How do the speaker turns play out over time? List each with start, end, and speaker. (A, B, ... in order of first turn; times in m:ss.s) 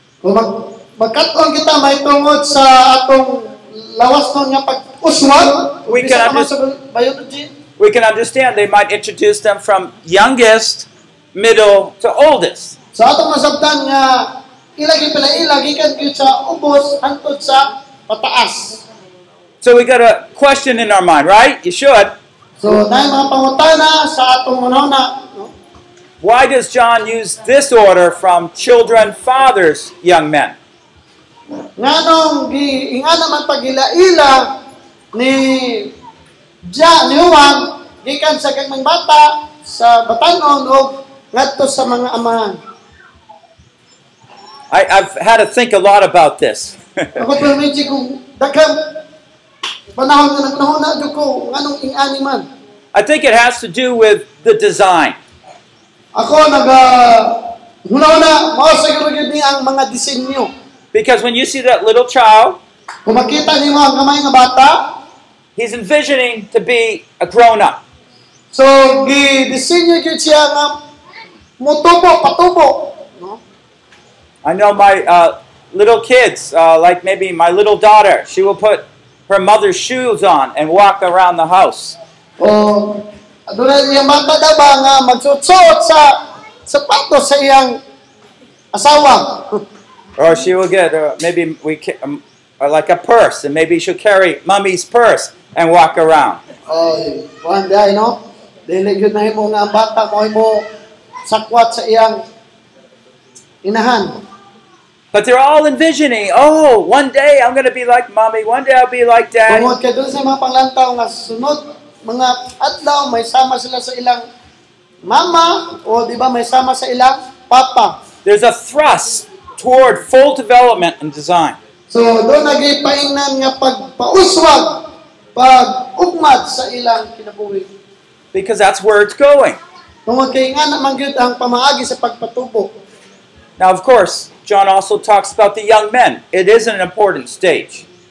0:00.2-0:07.5 A
0:05.9-0:06.5 B
0:07.8-0:12.7 B
0:12.9-0:18.8 A
0:19.6-0:22.2 B
0:22.6-0:25.5 A
0:26.2-0:30.6 B
0:31.8-0:34.6 A
0:35.1-0:35.9 A
0:36.7-0:42.6 A
0:44.7-0:47.2 B
0:47.2-0:49.0 A
0:49.9-0:52.4 A
0:52.9-0:55.2 B
0:56.1-1:00.5 A
1:00.9-1:02.6 B
1:03.0-1:05.0 A
1:05.6-1:07.8 B
1:08.5-1:10.8 A
1:11.6-1:13.4 A
1:14.4-1:22.0 B
1:22.4-1:27.8 A
1:28.7-1:29.6 A
1:30.2-1:36.4 B
1:36.7-1:40.7 A
1:41.3-1:42.2 A
1:43.6-1:44.2 A
1:45.1-1:49.7 B
1:49.5-1:54.2 A
1:55.0-1:58.0 A
1:58.2-2:01.6 B
2:01.9-2:07.7 A
2:08.3-2:09.6 B
2:10.0-2:12.7 A
2:13.6-2:17.8 B